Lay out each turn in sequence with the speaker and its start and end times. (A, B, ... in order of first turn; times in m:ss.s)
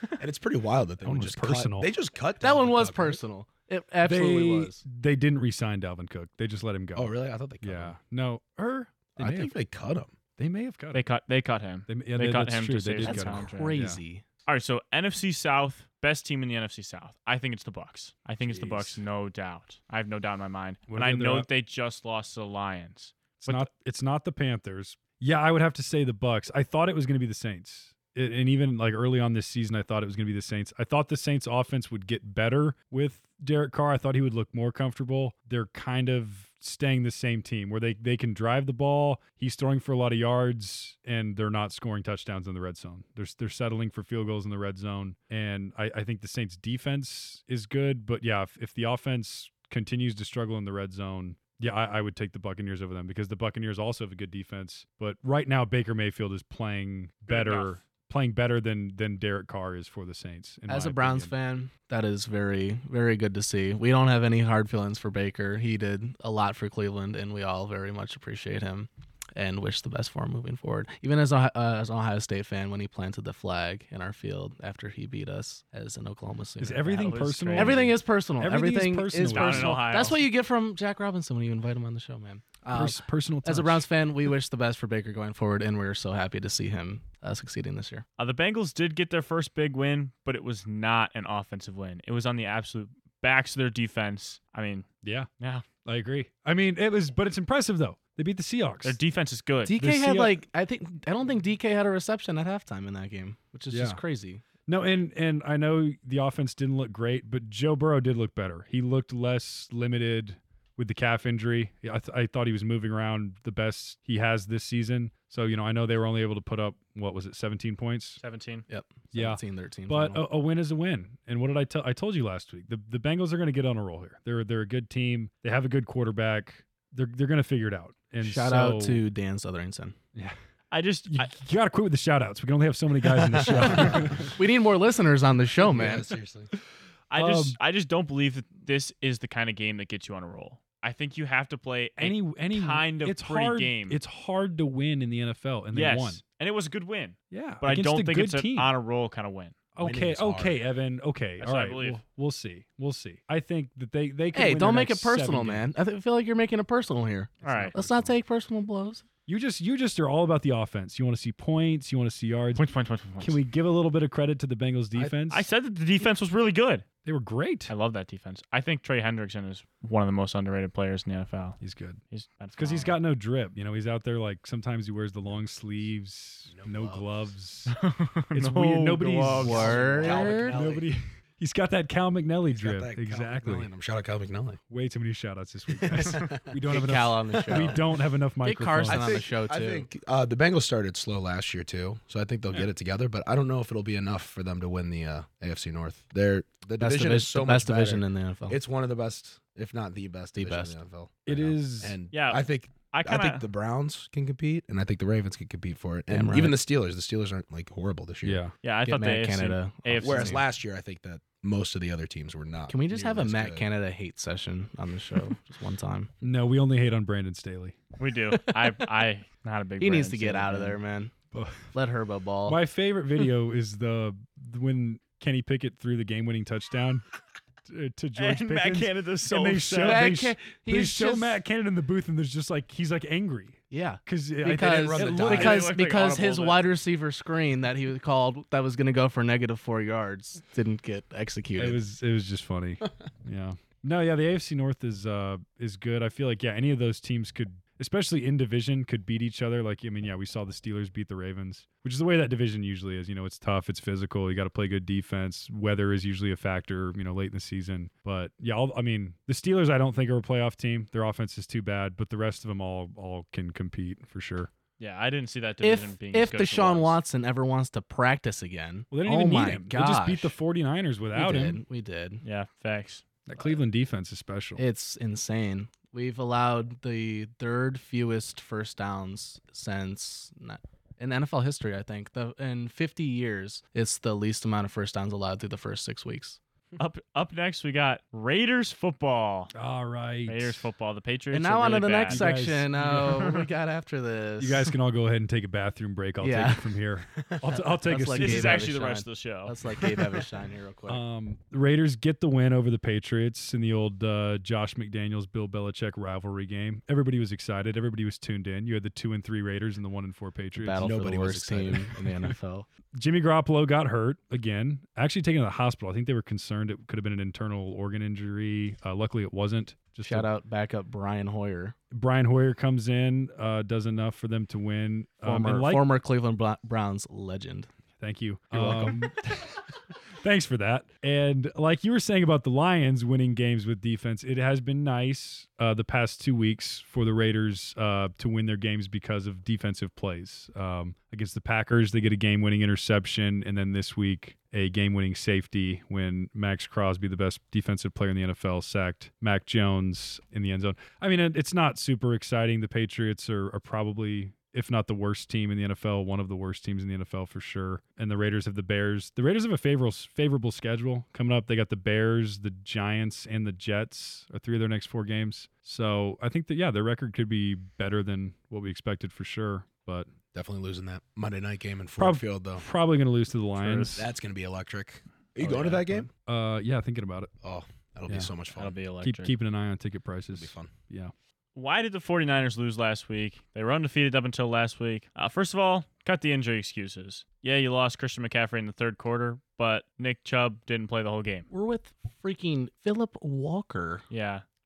0:00.2-0:03.2 A
0:01.0-0:01.9 B
0:02.4-0:04.8 C
0:04.0-0:09.5 B
0:06.9-0:08.0 A
0:09.2-0:10.1 A
0:10.4-0:11.0 B
0:10.9-0:13.8 D
0:11.9-0:14.0 B
0:13.0-0:14.2 C
0:14.4-0:23.7 D
0:18.4-0:19.0 B
0:20.9-0:21.5 B
0:23.4-1:01.3 B
0:57.3-0:57.8 D
1:00.7-1:28.0 C
1:16.6-1:19.8 B
1:16.9-1:17.8 D
1:19.3-1:20.2 D
1:22.7-1:23.8 B
1:28.2-1:34.9 D
1:35.0-1:35.3 B
1:35.4-1:35.7 D
1:35.8-1:39.0 B
1:38.8-1:39.7 D
1:39.6-1:44.4 C
1:39.8-1:40.4 B
1:43.7-1:44.0 B
1:44.7-1:58.2 B
1:58.2-1:58.6 D
1:58.7-2:00.2 C
1:59.1-2:09.0 B
2:08.2-2:10.0 C
2:10.7-2:11.3 D
2:11.1-2:14.3 B
2:13.4-2:16.1 C
2:13.6-2:14.2 A
2:15.6-2:16.5 A
2:17.1-2:24.0 D
2:17.1-2:17.6 B
2:22.0-2:26.2 B
2:25.7-2:29.6 D
2:27.3-2:28.7 B
2:29.7-2:35.7 B
2:29.8-2:30.7 A
2:31.4-2:32.0 D
2:34.3-2:39.0 C
2:37.4-2:38.1 A
2:37.4-2:37.8 D
2:39.3-2:42.6 B
2:42.5-2:43.4 D
2:43.2-2:45.4 B
2:45.3-2:46.8 D
2:47.0-2:47.7 B
2:47.7-2:51.6 D
2:51.6-2:52.0 B
2:52.1-2:53.0 D
2:52.6-2:57.8 B
2:56.5-2:57.3 A
2:57.7-3:00.4 D
2:58.3-3:03.7 B
2:59.4-3:00.6 C
2:59.4-3:00.9 A
3:02.5-3:04.6 A
3:04.7-3:09.2 B
3:05.7-3:06.6 A
3:06.7-3:07.8 C
3:07.4-3:07.8 A
3:08.4-3:09.9 C
3:08.9-3:28.4 A
3:16.8-3:18.6 C
3:20.4-3:20.8 C
3:21.3-3:22.0 B
3:22.1-3:23.4 D
3:26.1-3:26.5 C
3:28.2-3:28.5 B
3:28.6-3:30.4 D
3:28.8-3:30.4 C
3:30.0-3:33.7 A
3:32.7-3:36.1 C
3:36.2-3:37.8 B
3:38.0-3:40.8 D
3:39.8-3:41.1 C
3:41.3-3:41.7 B
3:41.7-3:42.6 C
3:42.4-3:47.0 B
3:47.6-3:55.7 B
3:48.2-3:50.1 D
3:49.8-3:51.4 C
3:53.7-4:01.8 C
3:54.4-3:55.6 A
3:55.2-3:56.7 D
4:01.6-4:24.5 B
4:24.8-4:27.0 D
4:25.6-4:30.4 C
4:28.9-4:31.6 B
4:31.1-4:32.2 C
4:32.2-4:33.0 D
4:33.3-4:34.6 B
4:34.6-4:46.4 C
4:46.8-4:49.5 D
4:49.5-4:50.7 B
4:50.2-4:52.3 D
4:51.3-4:54.7 C
4:52.1-4:53.4 B
4:54.4-4:58.7 B
4:56.2-4:56.7 C
4:57.4-5:01.0 C
4:58.1-4:59.8 D
5:00.9-5:10.9 B
5:10.6-5:12.7 C
5:10.8-5:12.0 A
5:12.9-5:20.3 B
5:20.0-5:21.8 C
5:21.9-5:25.8 B
5:25.2-5:27.7 C
5:28.0-5:29.6 B
5:28.5-5:28.8 A
5:28.5-5:28.9 C
5:30.2-6:10.1 B
6:10.3-6:12.6 A
6:12.0-6:14.1 B
6:13.6-6:14.0 D
6:13.9-6:16.1 A
6:15.4-6:15.8 D
6:16.1-6:17.3 B
6:17.4-6:18.8 A
6:18.5-6:19.4 D
6:19.0-6:21.1 B
6:20.3-6:20.7 A
6:21.5-6:31.5 D
6:31.5-6:34.0 C
6:34.1-6:34.4 D